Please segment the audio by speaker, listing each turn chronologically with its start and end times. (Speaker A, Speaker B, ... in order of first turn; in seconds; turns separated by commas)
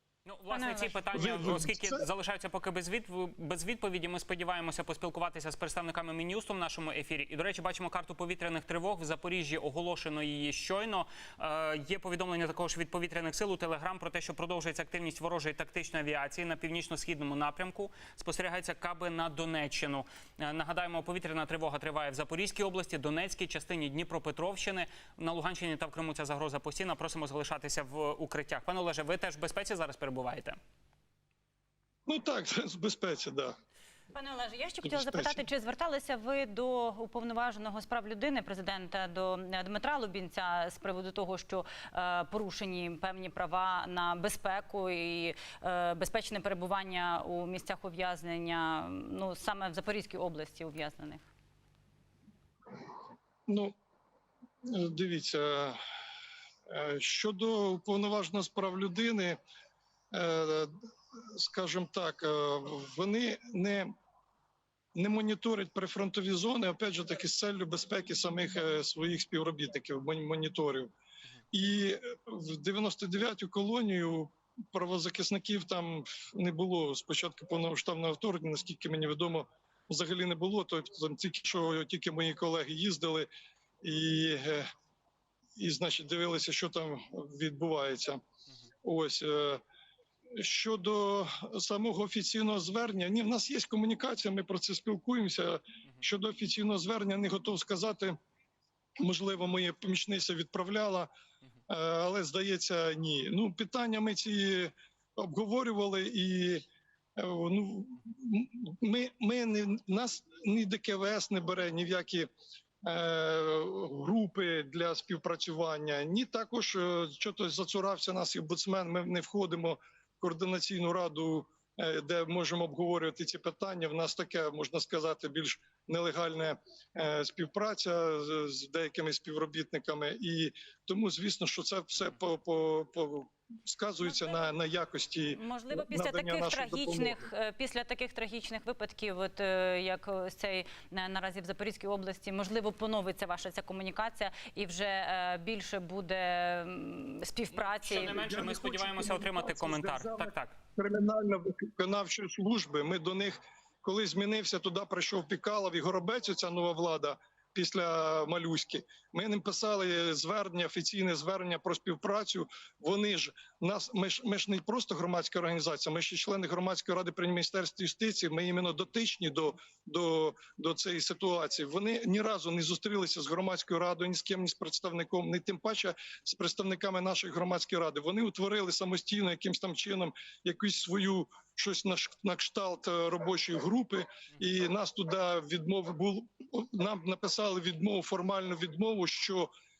Speaker A: 0.2-30.6, Speaker B: 0.5-1.0, Speaker C: 1.1-2.0, Speaker C: 32.1-33.5, Speaker B: 34.1-51.2, Speaker C: 34.8-35.4, Speaker C: 53.5-53.7, Speaker C: 54.6-55.8, Speaker C: 56.7-59.4, Speaker C: 60.1-63.9, Speaker C: 64.9-70.9, Speaker C: 71.5-83.3, Speaker C: 83.8-84.7, Speaker C: 85.5-88.2, Speaker C: 88.8-89.6, Speaker C: 90.3-98.2, Speaker C: 99.0-101.1, Speaker C: 101.7-106.6, Speaker C: 107.2-112.3, Speaker C: 112.8-137.2, Speaker B: 134.0-134.5, Speaker B: 135.3-148.3, Speaker A: 147.5-150.6, Speaker C: 148.1-189.5